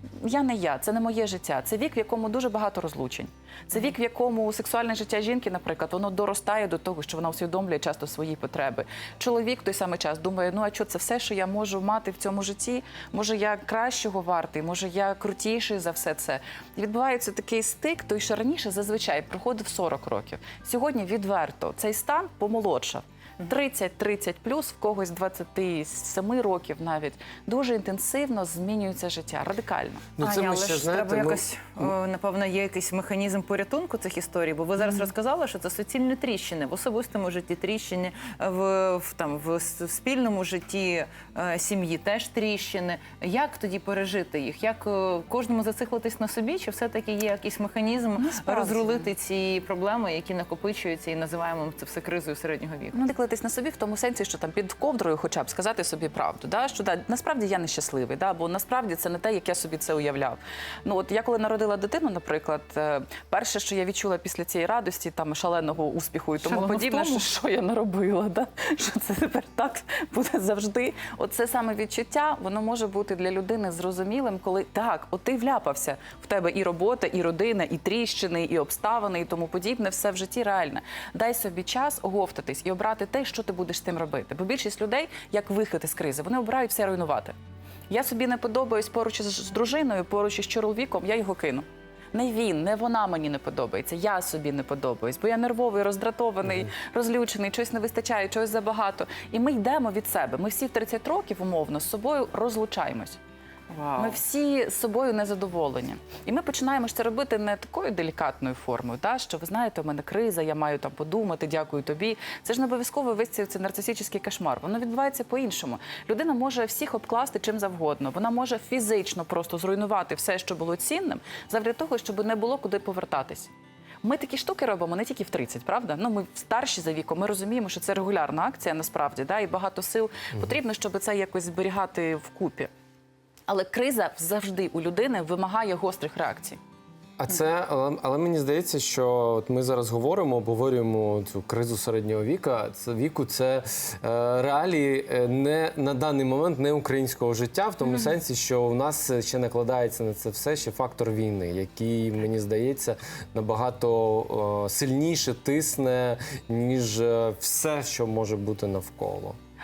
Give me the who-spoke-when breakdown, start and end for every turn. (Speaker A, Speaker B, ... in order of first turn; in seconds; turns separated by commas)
Speaker A: 0.2-30.1, Speaker B: 30.2-31.4, Speaker C: 30.2-53.0, Speaker A: 48.2-49.1, Speaker A: 52.9-87.3, Speaker C: 66.4-67.2, Speaker A: 87.9-103.2, Speaker C: 103.7-104.2, Speaker A: 104.0-123.5, Speaker A: 124.0-132.7, Speaker A: 133.5-136.6, Speaker B: 137.2-159.4